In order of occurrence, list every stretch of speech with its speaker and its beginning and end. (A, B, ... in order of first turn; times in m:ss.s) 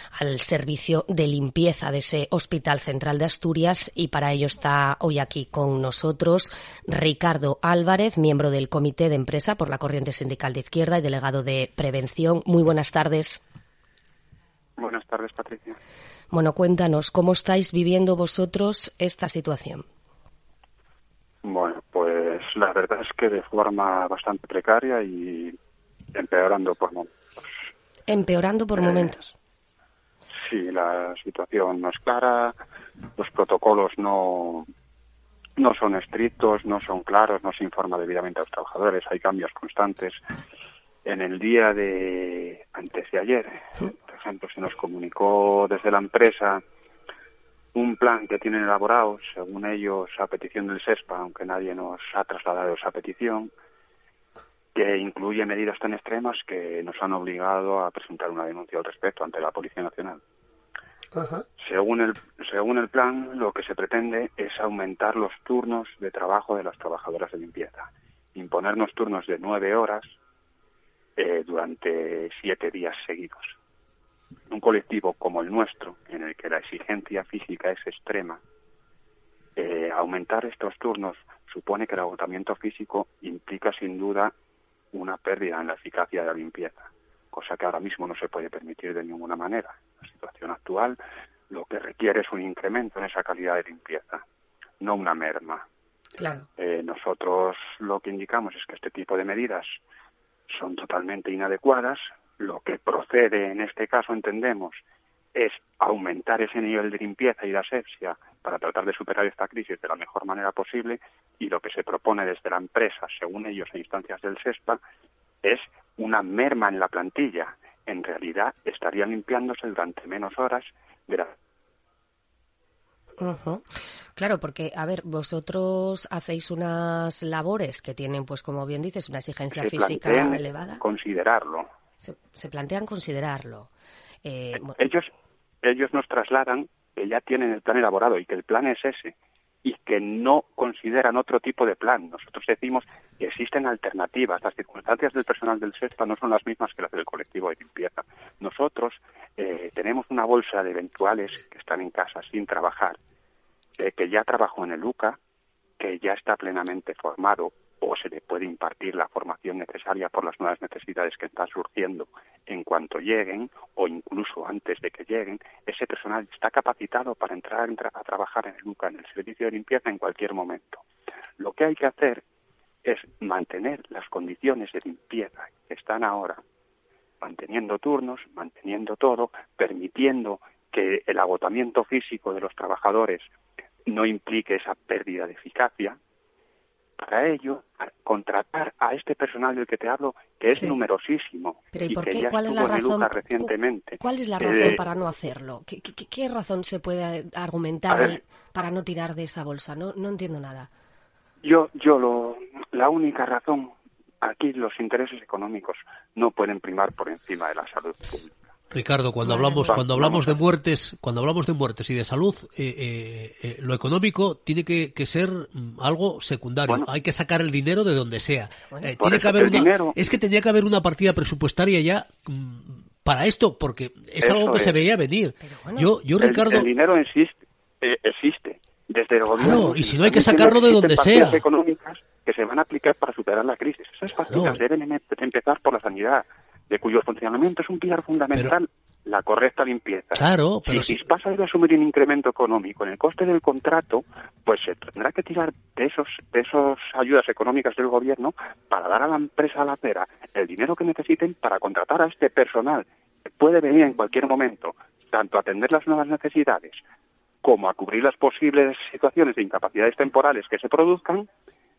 0:00.1-0:13.4 A
0:14.8-0:15.8 B
0:16.3-0:19.8 A
0:21.4-0:25.6 B
0:26.1-0:27.6 B
0:28.1-0:29.3 A
0:28.8-0:29.1 B
0:30.4-0:32.5 B
0:33.2-0:34.7 B
0:35.6-0:40.2 B
0:41.0-0:46.6 B
0:47.7-0:53.5 B
0:54.7-1:00.2 B
1:01.1-1:01.4 A
1:01.6-1:10.1 B
1:11.2-1:13.6 B
1:14.5-1:18.4 B
1:19.6-1:24.3 B
1:24.9-1:31.0 B
1:31.5-1:34.2 B
1:34.8-1:35.6 B
1:36.2-1:36.5 A
1:36.6-1:39.8 B
1:40.5-1:44.8 B
1:45.3-1:54.8 B
1:55.4-2:01.3 B
2:03.2-2:03.6 A
2:04.2-2:10.8 A
2:09.5-2:11.7 B
2:12.0-2:13.7 A
2:14.2-2:14.8 A
2:14.5-2:15.1 B
2:15.6-2:19.1 B
2:19.6-2:33.0 B
2:33.8-2:35.2 B
2:35.8-2:50.8 B
2:51.4-2:52.2 B
2:52.8-2:56.4 B
2:57.2-3:03.2 B
3:03.9-3:06.0 B
3:07.0-3:14.8 B
3:11.7-3:20.7 A
3:17.9-3:18.2 B
3:21.4-3:28.5 B
3:28.7-3:46.7 C
3:29.2-3:29.8 A
3:29.6-3:30.4 B
3:39.0-3:40.0 B
3:44.2-3:44.8 B
3:45.4-3:45.9 A
3:46.2-4:16.8 B
3:49.3-3:51.4 C
3:54.3-3:54.6 C
4:00.1-4:01.0 C
4:17.4-4:21.3 B